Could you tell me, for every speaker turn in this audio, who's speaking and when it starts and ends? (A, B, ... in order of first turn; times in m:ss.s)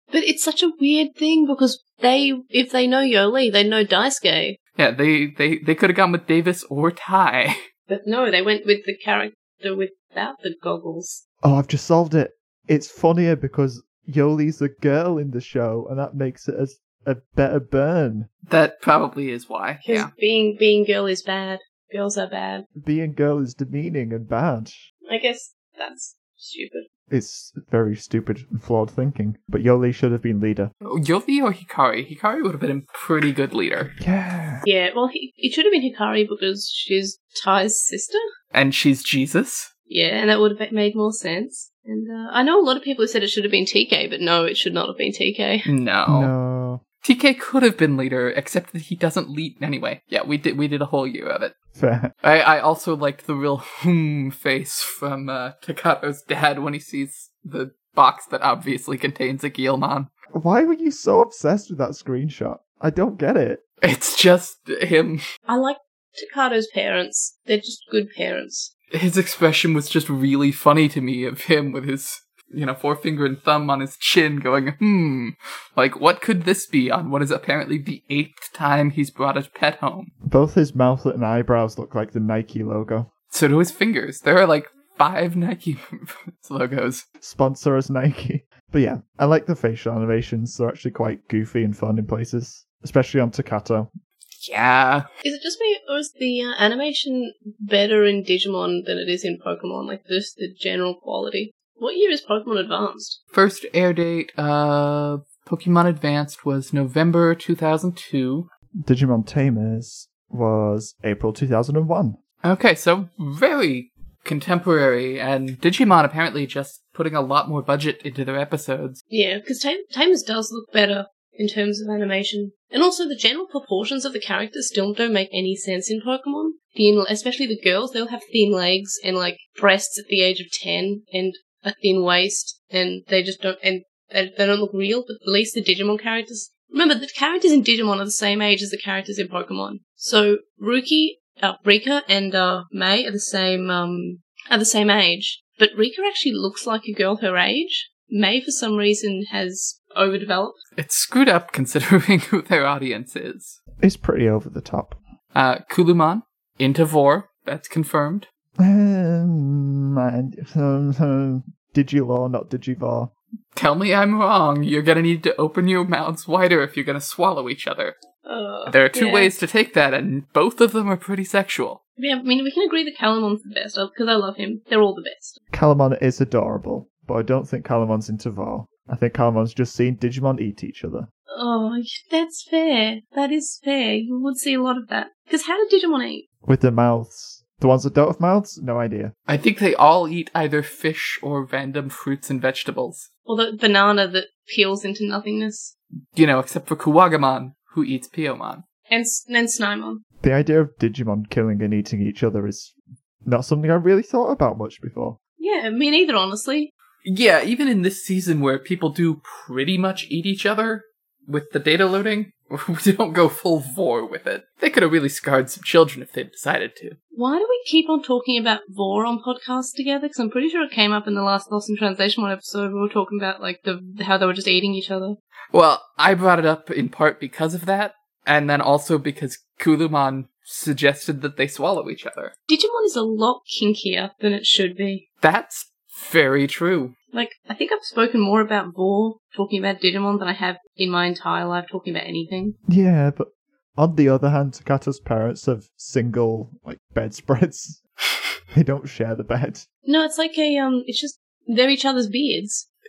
0:00.1-0:04.6 A
0:04.8-0:07.6 B
0:07.9-0:11.2 A
0:11.4-0:18.3 C
0:18.5-0:20.1 B
0:19.9-0:22.6 A
0:22.8-0:24.8 C
0:25.1-0:26.9 A
0:27.1-0:30.7 C
0:30.8-0:33.9 B
0:34.0-0:34.6 C
0:34.6-0:38.2 A
0:38.5-0:39.7 B
0:39.9-0:45.7 A
0:45.7-0:46.3 B
0:46.1-0:46.8 C
0:47.0-0:51.5 B
0:51.8-0:52.1 C
0:52.2-1:00.1 B
1:00.3-1:03.6 C
1:03.8-1:05.2 B
1:05.5-1:08.7 A
1:08.9-1:20.1 B
1:20.3-1:23.1 C
1:23.3-1:27.0 B
1:27.2-1:33.9 C
1:34.4-1:35.1 B
1:35.2-1:43.2 A
1:43.3-1:48.5 B
1:48.8-1:52.2 C
1:52.4-1:59.0 B
1:59.1-2:30.6 A
2:30.8-2:33.6 B
2:33.8-2:35.0 C
2:35.3-2:38.3 B
2:38.6-2:43.1 C
2:43.6-2:48.0 B
2:48.3-2:49.3 A
2:48.7-2:51.8 B
2:52.0-2:55.4 A
2:55.5-3:01.1 C
3:01.3-3:06.2 A
3:06.4-3:09.1 C
3:09.3-3:13.1 B
3:13.3-3:15.7 A
3:16.2-3:18.6 B
3:18.9-3:20.0 A
3:20.2-3:22.7 C
3:23.2-3:25.2 C
3:25.4-3:26.7 A
3:27.0-3:37.0 B
3:37.1-3:45.2 A
3:45.5-3:52.3 B
3:52.5-3:55.0 A
3:55.2-3:57.0 B
3:57.1-4:02.6 A
4:02.7-4:07.8 C
4:08.5-4:09.7 C
4:09.9-4:12.6 A